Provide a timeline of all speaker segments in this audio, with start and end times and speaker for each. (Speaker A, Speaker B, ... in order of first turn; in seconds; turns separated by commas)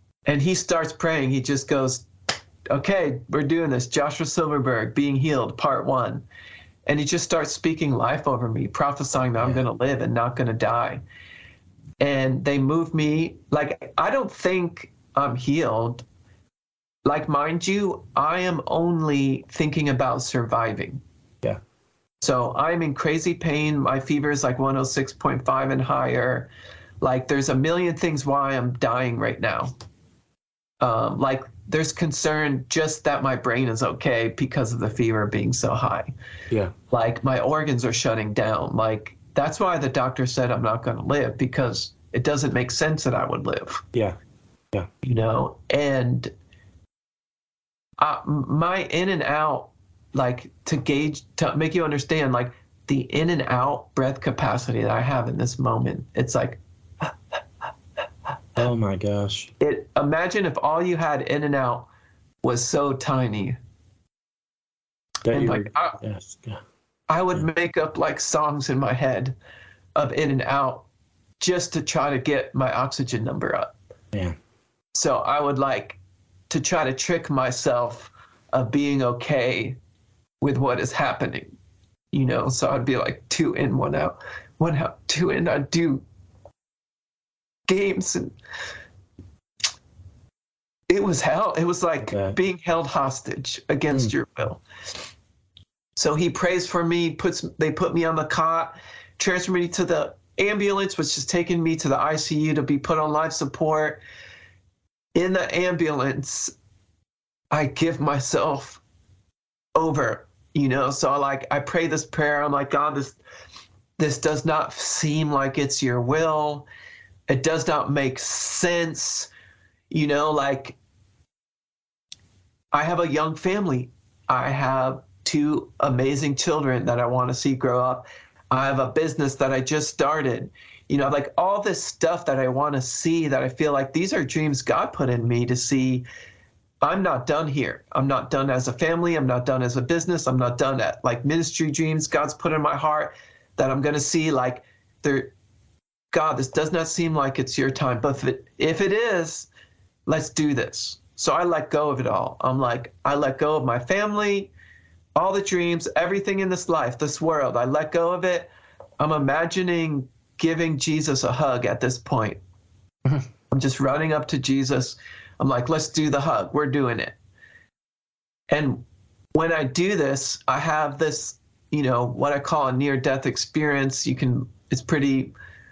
Speaker A: 0.3-2.1, Speaker A: 2.7-6.2, Speaker A: 6.9-11.0, Speaker A: 12.0-16.1, Speaker A: 17.1-21.0, Speaker A: 22.2-26.5, Speaker A: 27.0-29.7, Speaker A: 30.8-36.1, Speaker A: 36.9-43.9, Speaker A: 45.0-46.3, Speaker A: 48.0-57.1, Speaker B: 58.6-59.5, Speaker A: 59.6-61.9, Speaker A: 62.4-63.6, Speaker B: 65.3-66.6, Speaker A: 65.3-66.0, Speaker A: 67.1-69.4, Speaker A: 70.0-70.9, Speaker A: 71.4-73.7, Speaker A: 74.9-79.8, Speaker A: 80.4-81.5, Speaker A: 82.1-86.0, Speaker A: 87.7-88.3, Speaker A: 90.9-94.6, Speaker B: 92.1-92.4, Speaker A: 96.0-104.0, Speaker A: 105.2-106.5, Speaker A: 107.5-108.8, Speaker A: 109.8-113.2, Speaker A: 114.0-116.7, Speaker A: 117.3-119.3, Speaker A: 119.9-120.8, Speaker A: 122.7-136.1, Speaker A: 136.8-145.3, Speaker A: 146.1-149.5, Speaker A: 150.1-154.5, Speaker A: 155.2-162.4, Speaker A: 163.5-167.2, Speaker A: 168.5-175.3